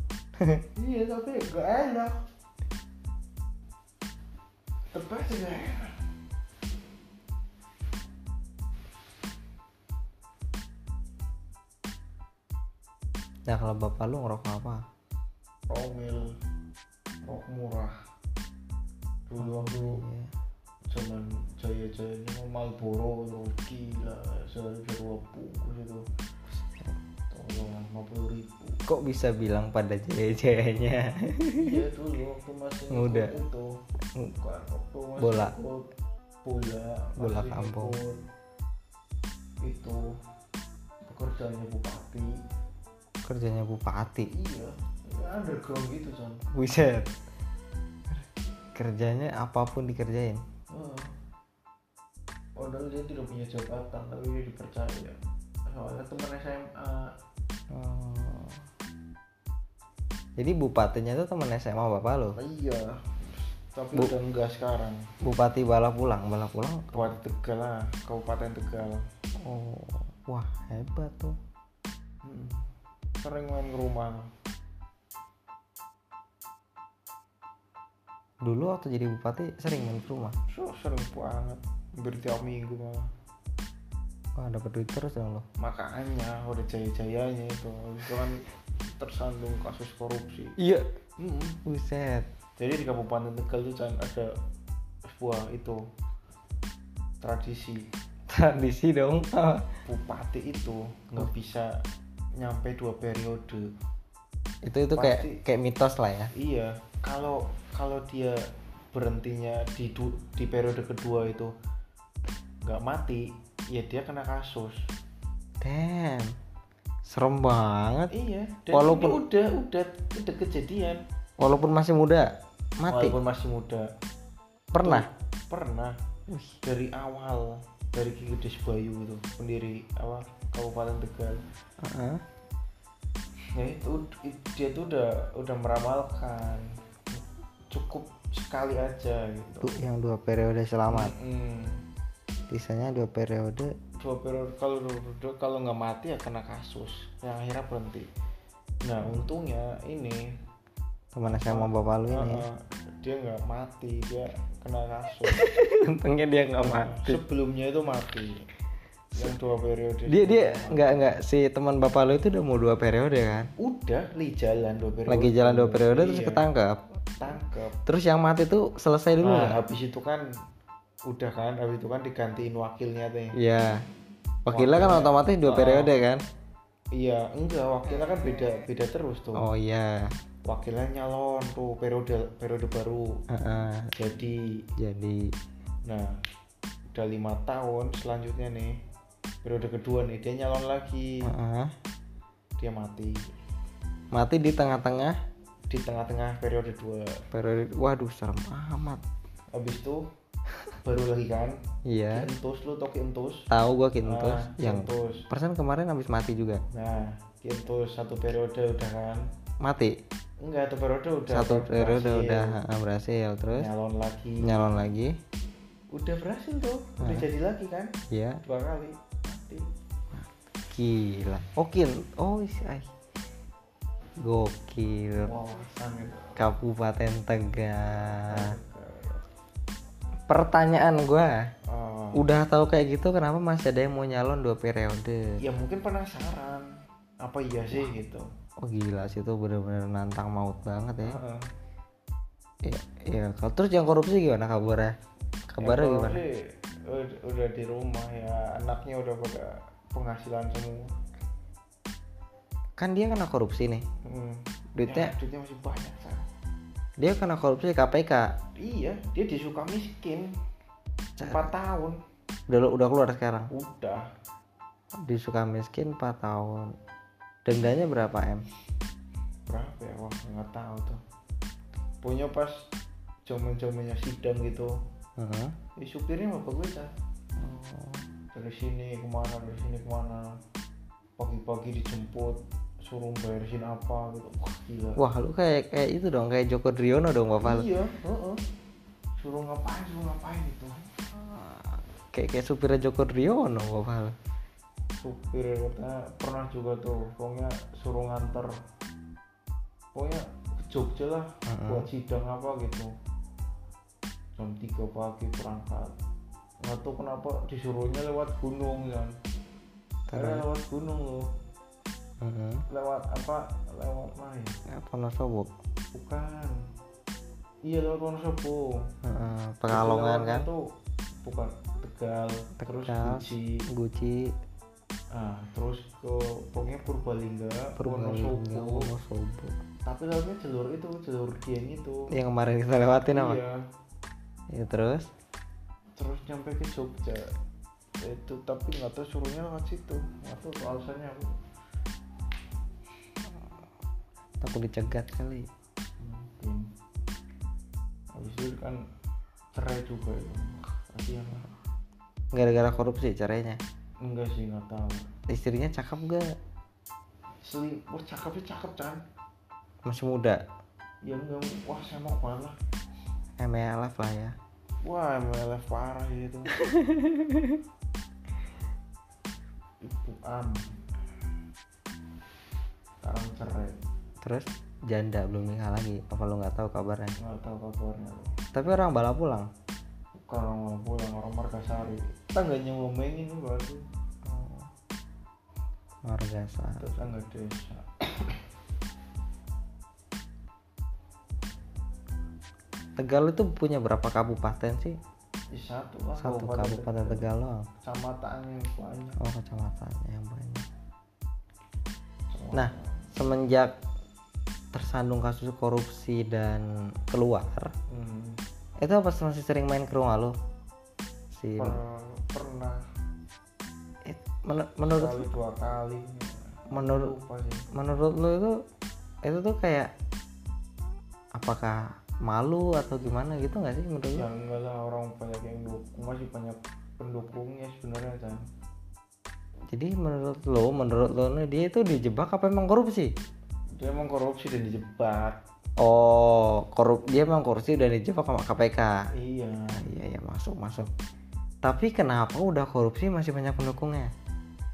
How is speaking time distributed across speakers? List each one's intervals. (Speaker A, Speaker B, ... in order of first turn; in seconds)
Speaker A: 0.4-0.6, 13.5-14.9, 19.4-20.3, 26.5-27.0, 28.9-31.8, 32.9-33.3, 35.2-35.5, 37.2-38.0, 43.2-44.3, 46.5-47.1, 48.8-50.4, 57.7-58.6, 60.4-62.4, 65.2-67.1, 69.4-71.4, 78.4-80.4, 84.4-85.5, 90.6-90.9, 91.7-92.3, 98.3-99.7, 104.6-106.3, 115.6-116.3, 117.0-118.1, 118.7-119.2, 121.4-123.2, 124.7-125.1, 126.3-126.6, 131.8-132.2, 139.6-141.1, 142.5-143.7, 151.1-152.4, 155.3-157.2, 160.1-163.5, 165.1-166.8, 167.9-169.6, 173.4-173.8, 174.5-176.2, 179.4-180.2, 183.3-183.9, 184.8-185.3, 191.2-191.7, 194.1-195.2, 197.3-199.0, 201.9-202.3, 203.5-206.6, 209.6-210.0, 211.3-213.7, 214.4-215.2, 217.0-217.3, 218.1-218.4, 220.1-222.9, 224.2-225.3, 226.4-228.6, 230.3-231.5, 232.2-235.2, 238.6-241.2, 242.6-244.9, 245.5-246.2, 252.8-253.9, 254.8-255.1, 257.0-258.3, 261.2-261.5, 262.5-263.5, 265.0-266.8, 267.4-268.5, 275.2-275.6, 277.4-278.1, 285.0-287.7, 291.1-294.2, 301.5-301.9, 310.1-310.4, 312.2-312.6, 314.7-315.5, 319.0-320.5, 322.6-324.4, 327.8-329.6, 332.1-333.4, 334.5-335.1, 344.4-345.5, 352.3-353.6, 355.3-356.4, 359.9-360.4, 363.4-364.4, 366.6-367.6, 374.2-377.2, 378.5-379.5, 384.2-384.7, 386.1-387.1, 393.0-395.0, 396.2-397.7, 399.2-400.7, 402.5-403.7, 404.7-407.7, 408.8-410.4, 411.3-411.8, 414.1-415.3, 416.7-417.1, 417.7-418.6, 419.2-419.9, 421.4-424.3, 429.7-433.1, 435.8-439.1, 439.8-440.9, 441.6-444.1
Speaker B: 0.8-2.2, 4.9-6.0, 15.7-16.3, 17.3-17.9, 19.3-20.0, 20.9-26.1, 27.3-28.8, 31.5-33.7, 34.4-35.9, 36.4-38.2, 39.6-40.1, 41.0-42.4, 44.3-46.4, 50.7-51.1, 52.6-55.2, 55.7-57.1, 62.4-65.0, 66.9-69.0, 72.2-72.6, 73.2-74.3, 80.5-83.1, 85.6-90.6, 91.2-91.6, 92.6-94.3, 95.1-95.8, 97.2-97.9, 99.9-101.8, 102.4-103.7, 105.0-105.4, 106.3-111.5, 112.7-114.8, 118.1-121.0, 122.9-123.9, 124.8-126.0, 126.6-131.4, 133.6-139.8, 140.9-141.8, 144.0-148.1, 148.8-150.2, 151.3-155.4, 156.6-158.4, 159.2-161.1, 163.6-166.5, 167.2-167.8, 169.2-170.3, 171.1-173.4, 174.5-175.9, 176.9-179.5, 180.5-183.2, 184.0-184.6, 185.9-186.2, 186.9-188.8, 189.4-191.3, 192.6-193.3, 195.7-197.2, 199.5-200.1, 200.8-201.6, 202.1-203.5, 204.0-205.3, 206.7-209.3, 210.4-212.6, 213.5-214.8, 215.9-217.9, 218.4-219.7, 225.2-226.4, 228.1-229.2, 231.7-232.2, 235.4-238.3, 241.0-241.5, 245.6-250.9, 254.1-256.3, 258.6-260.3, 261.2-262.0, 263.5-264.1, 269.5-271.0, 272.0-272.7, 273.3-274.8, 275.8-276.9, 278.3-280.4, 281.2-285.0, 287.4-288.4, 289.2-290.9, 295.0-298.5, 299.9-302.9, 304.4-305.9, 306.6-309.2, 310.1-311.3, 312.7-314.6, 315.9-316.6, 317.7-318.9, 319.7-320.7, 321.2-323.7, 325.1-328.9, 329.9-332.1, 333.1-333.6, 336.0-337.3, 338.0-341.4, 346.0-346.7, 348.2-348.8, 349.5-351.5, 354.0-355.1, 357.4-359.0, 361.1-362.6, 364.8-366.5, 369.8-370.6, 373.0-373.8, 377.2-378.3, 380.2-383.9, 386.8-388.4, 395.5-397.3, 397.8-399.2, 402.3-403.1, 407.9-408.4, 411.6-412.8, 414.8-417.7, 424.1-428.4, 433.8-435.4, 439.1-439.8